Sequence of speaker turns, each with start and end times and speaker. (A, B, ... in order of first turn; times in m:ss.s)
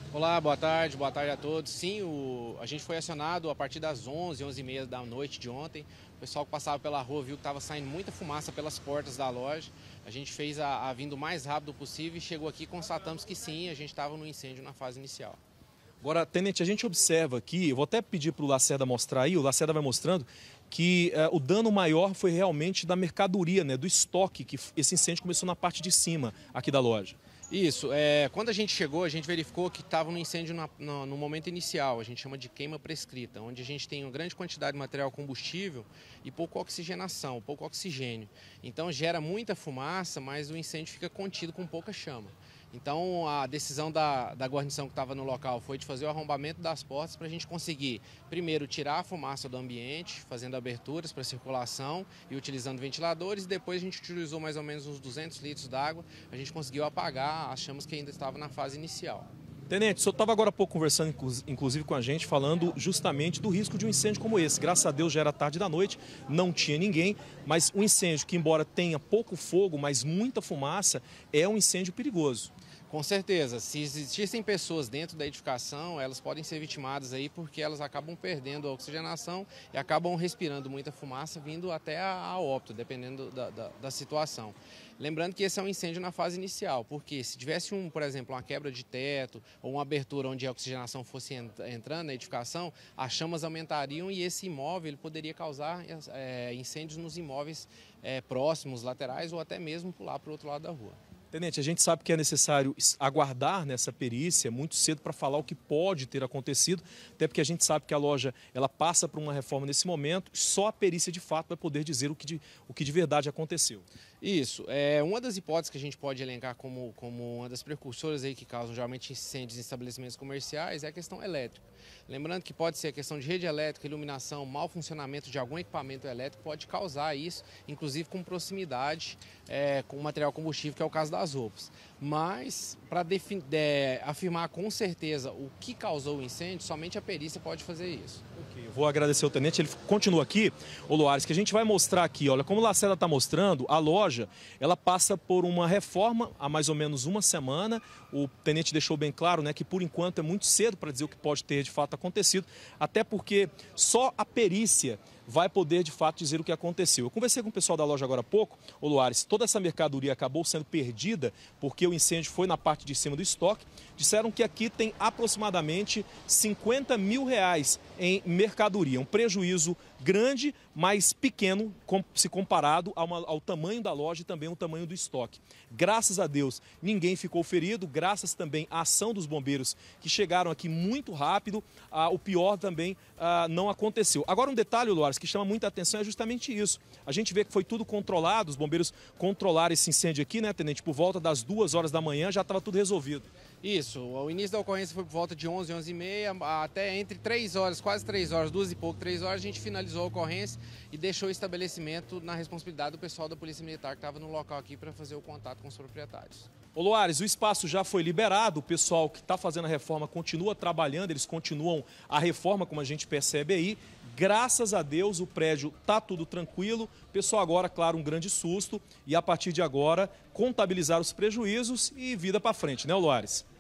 0:00.1-0:15.4 A
0:16.0-0:27.2 B
0:27.5-0:59.3 A
0:59.7-1:12.5 B
1:12.9-1:41.0 A
1:41.3-1:53.9 B
1:54.2-2:18.2 A
2:18.4-3:13.3 B
3:13.6-3:26.5 A
3:26.8-3:43.4 B